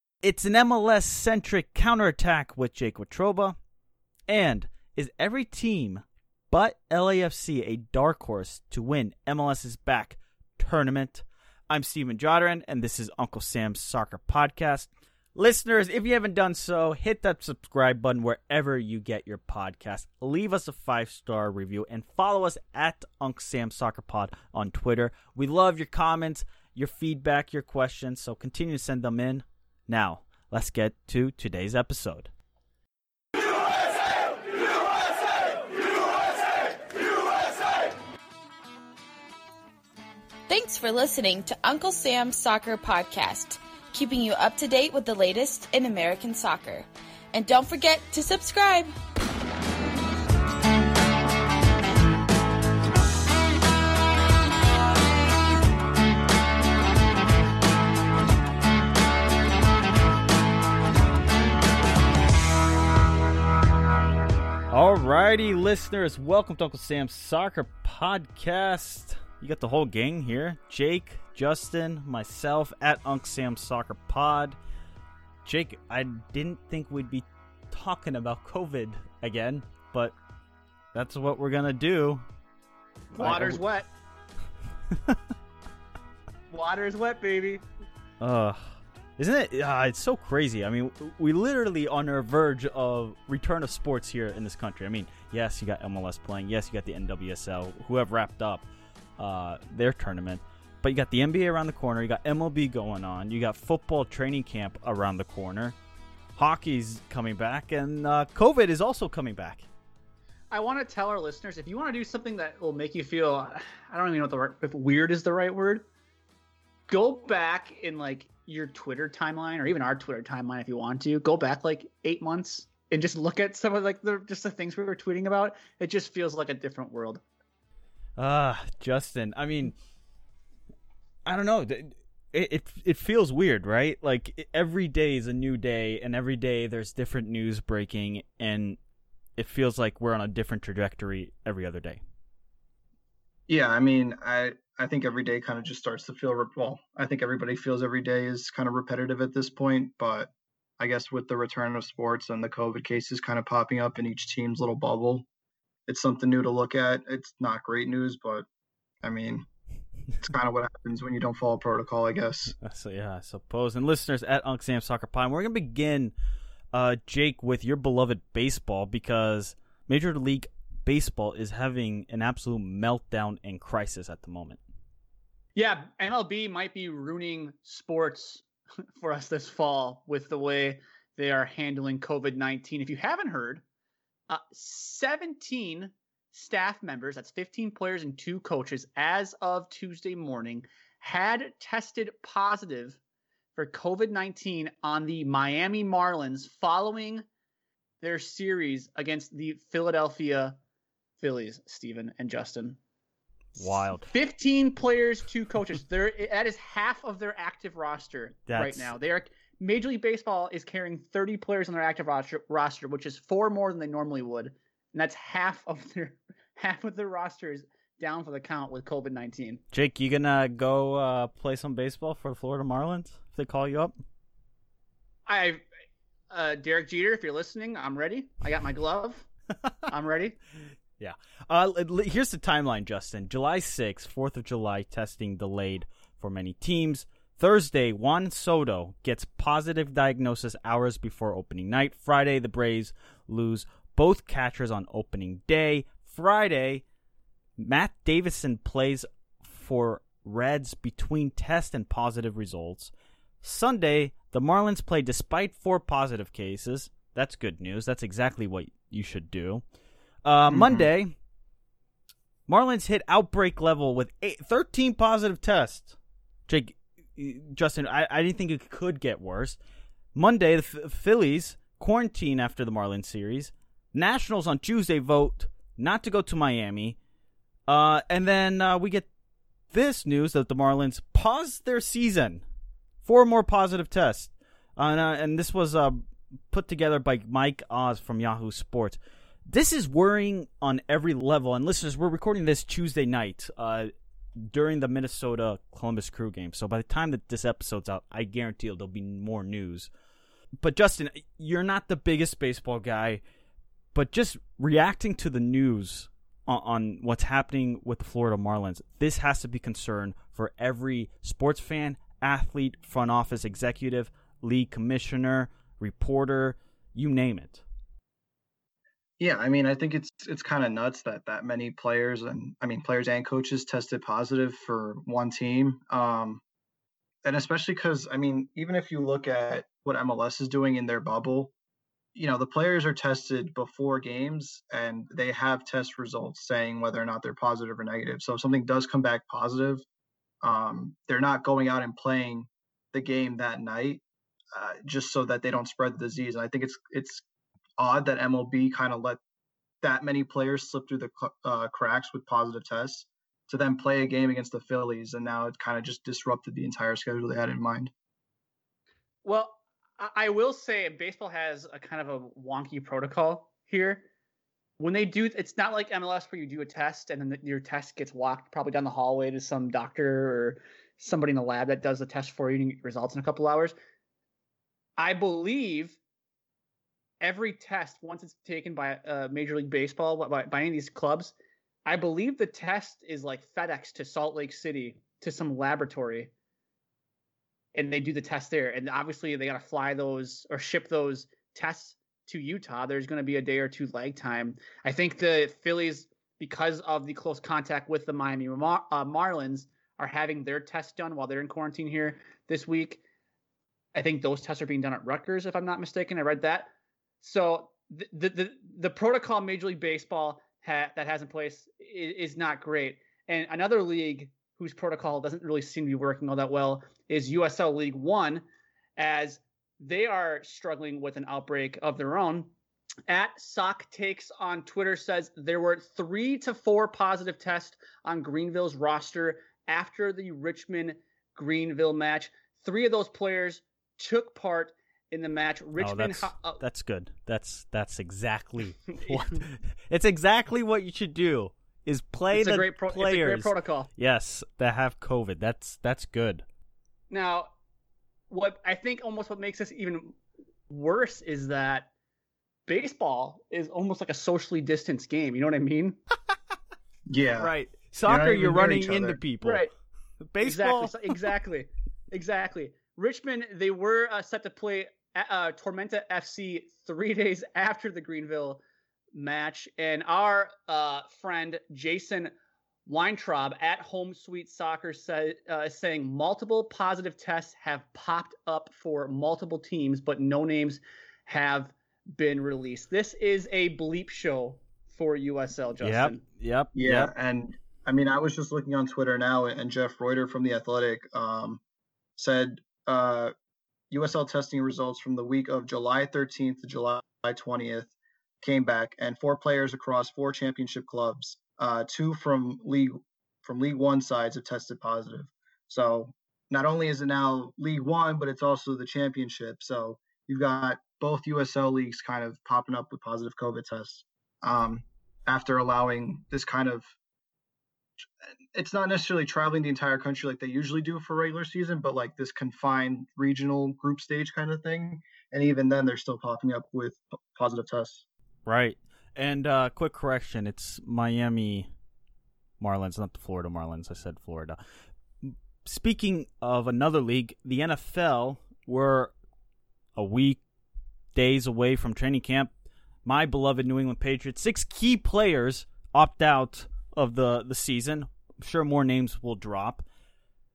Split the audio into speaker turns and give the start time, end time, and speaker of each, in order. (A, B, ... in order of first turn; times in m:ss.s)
0:00.2-0:03.6 A
0:04.3-0:32.3 A
0:40.5-0:48.9 B
1:04.7-1:14.6 A
1:15.4-1:20.1 A
1:20.9-1:22.2 A
1:23.2-1:23.6 A
1:23.2-1:23.9 C
1:26.5-1:27.6 C
1:28.2-1:38.6 A
1:39.2-1:45.7 A
1:46.4-1:49.7 A
1:50.5-1:55.8 C
1:56.9-2:07.2 C
2:08.2-2:09.7 A
2:11.2-2:18.8 A
2:19.4-2:22.0 A
2:23.5-2:35.2 D
2:35.9-2:38.4 D
2:39.0-2:39.5 D
2:40.2-2:42.5 D
2:42.6-2:46.1 A
2:46.7-2:54.6 A
2:55.6-2:58.4 C
2:59.0-3:03.6 C
3:04.3-3:13.0 C
3:13.5-3:17.2 C
3:18.0-3:20.6 C
3:21.2-3:22.8 C
3:23.6-3:24.1 A
3:24.0-3:39.6 C
3:28.5-3:28.9 A
3:39.7-3:44.0 A
3:45.2-3:45.6 C
3:46.3-3:49.2 C
3:49.9-3:50.4 C
3:51.0-4:06.8 A
4:07.6-4:19.6 A
4:20.2-4:21.2 A
4:20.5-4:20.9 D
4:22.5-4:26.0 A
4:26.5-4:29.6 A
4:30.1-4:37.0 A
4:37.7-4:39.1 A
4:39.7-4:42.4 A
4:43.0-4:59.9 A
5:00.6-5:03.2 A
5:03.9-5:17.6 A
5:19.2-5:26.4 D
5:27.2-5:31.5 D
5:32.1-5:39.8 D
5:40.4-5:44.0 D
5:44.5-5:47.2 D
5:47.8-5:49.2 D
5:49.8-5:57.9 D
5:59.2-6:04.0 C
6:04.8-6:13.7 C
6:15.0-6:16.0 C
6:17.2-6:21.3 C
6:21.8-6:26.3 C
6:27.7-6:43.0 C
6:43.9-6:46.7 C
6:47.2-6:58.4 C
6:59.0-7:02.5 C
7:03.1-7:16.6 C
7:15.8-7:26.4 A
7:19.0-7:19.4 C
7:22.3-7:23.9 C
7:27.1-7:27.5 C
7:28.3-7:30.2 C
7:30.7-7:31.9 C
7:32.7-7:36.0 C
7:37.1-7:37.5 D
7:37.4-7:39.6 A
7:38.0-7:39.2 D
7:39.4-7:39.7 C
7:40.3-7:41.2 A
7:40.4-7:48.6 C
7:49.1-7:52.3 C
7:52.9-8:06.2 C
8:05.8-8:07.1 A
8:06.7-8:11.6 D
8:12.2-8:13.3 D
8:13.9-8:36.9 D
8:38.5-8:48.0 D
8:48.4-8:51.7 A
8:52.6-8:54.6 A
8:55.2-8:59.1 A
9:00.0-9:00.4 A
9:01.1-9:02.5 A
9:03.0-9:09.8 A